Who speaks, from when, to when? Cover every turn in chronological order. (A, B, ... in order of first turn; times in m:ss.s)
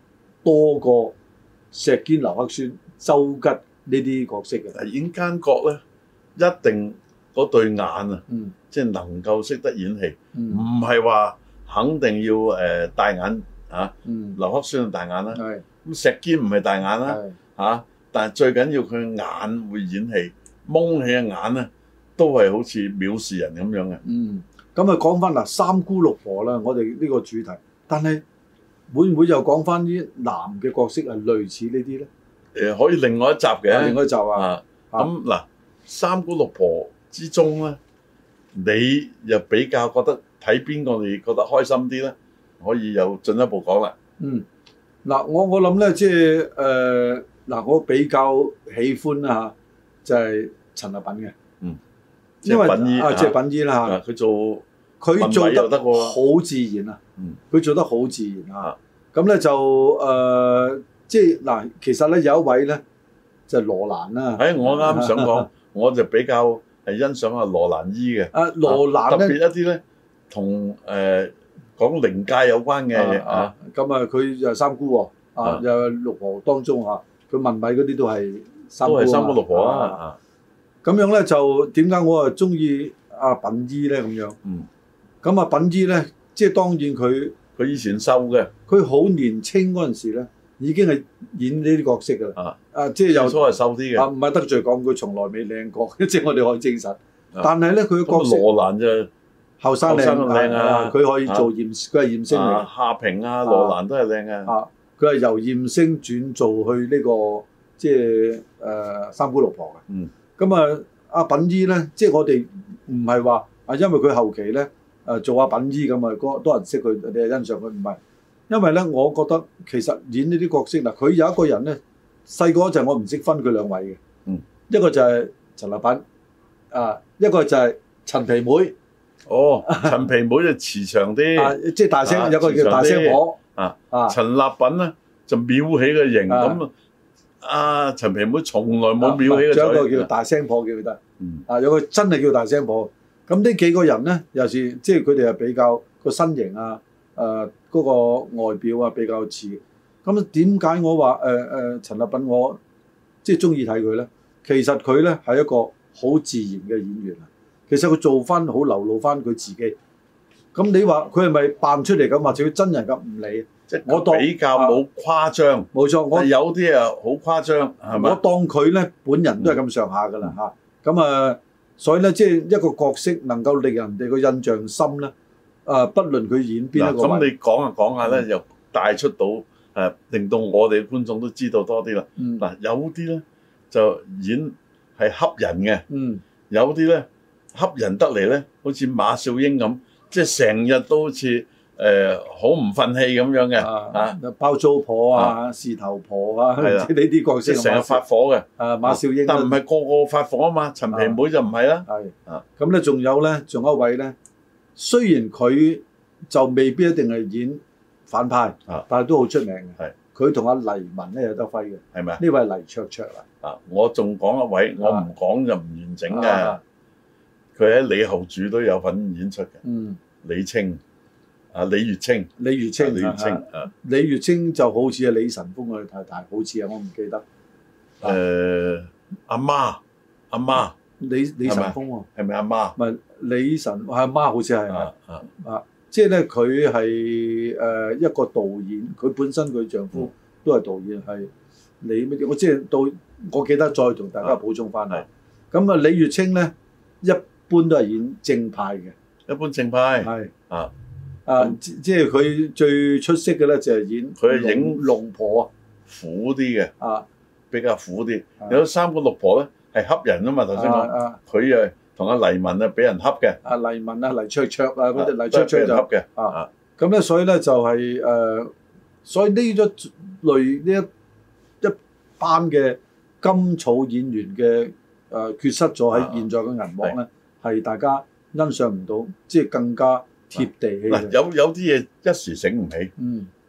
0:00.4-0:01.1 A
0:01.7-0:04.8 A
0:04.7-0:05.8 B
0:06.4-0:24.0 B
0:08.3-0:08.5 A
0:10.3-0:10.6 A
0:14.0-0:14.4 A
0:15.3-0:15.6 A
0:17.1-0:17.4 A
0:24.0-0:28.2 A
0:28.9-0:32.1 A
0:32.5-0:37.8 B
0:33.7-0:35.1 A
0:38.5-0:43.9 B
0:44.2-0:44.4 A
0:45.0-0:49.5 A
0:50.0-0:51.4 A
0:52.4-0:54.6 B
0:52.4-0:54.0 A
0:55.0-0:57.0 A
0:55.2-0:56.1 B
0:57.5-1:02.8 A
1:03.5-1:05.5 A
1:04.4-1:13.5 B
1:08.3-1:09.4 A
1:12.9-1:20.0 A
1:18.8-1:20.2 B
1:20.8-1:24.4 A
1:25.2-1:27.4 A
1:27.6-1:28.5 B
1:28.7-1:33.4 A
1:33.1-1:34.1 B
1:34.0-1:38.5 A
1:38.0-1:39.1 B
1:39.6-1:42.7 A
1:39.8-1:41.5 B
1:42.3-1:44.5 B
1:43.4-1:43.8 A
1:44.5-1:49.8 A
1:50.4-1:58.0 A
1:58.5-2:04.0 A
2:04.7-2:06.0 A
2:06.7-2:08.8 A
2:09.3-2:16.7 B
2:09.6-2:09.9 A
2:11.4-2:13.4 A
2:13.9-2:14.2 A
2:16.3-2:16.6 A
2:17.4-2:20.1 B
2:19.0-2:32.6 A
2:21.2-2:21.4 B
2:33.2-2:39.8 A
2:40.5-2:44.8 A
2:43.7-2:48.2 B
2:45.7-2:46.3 A
2:47.9-2:55.1 A
2:55.6-2:57.3 A
2:56.8-3:05.8 B
3:02.2-3:02.4 A
3:05.9-3:06.2 A
3:06.5-3:14.2 B
3:13.6-3:18.0 A
3:16.6-3:16.9 B
3:17.5-3:22.4 B
3:18.6-3:19.6 A
3:20.9-3:21.2 A
3:21.9-3:24.1 A
3:24.8-3:33.2 A
3:31.9-3:32.2 B
3:33.4-3:36.6 B
3:34.8-3:35.0 A
3:36.1-3:36.6 A
3:37.5-3:39.6 B
3:39.6-3:40.0 A
3:40.2-3:40.8 B
3:41.5-3:43.7 B
3:42.4-3:47.2 A
3:48.0-3:49.8 B
3:50.3-3:50.7 B
3:51.0-3:52.1 A
3:51.4-3:52.8 B
3:52.8-4:01.3 A
3:54.7-3:55.2 B
4:01.8-4:08.9 A
4:09.3-4:10.7 B
4:10.0-4:10.3 A
4:11.2-4:15.5 A
4:14.2-4:14.8 B
4:15.9-4:16.7 B
4:16.8-4:17.0 A
4:17.5-4:23.4 B
4:20.5-4:21.2 A
4:23.4-4:28.5 A
4:25.0-4:26.5 B
4:29.0-4:30.9 A
4:31.6-4:41.2 A
4:35.9-4:36.2 B
4:40.4-4:42.9 B
4:43.0-4:43.3 A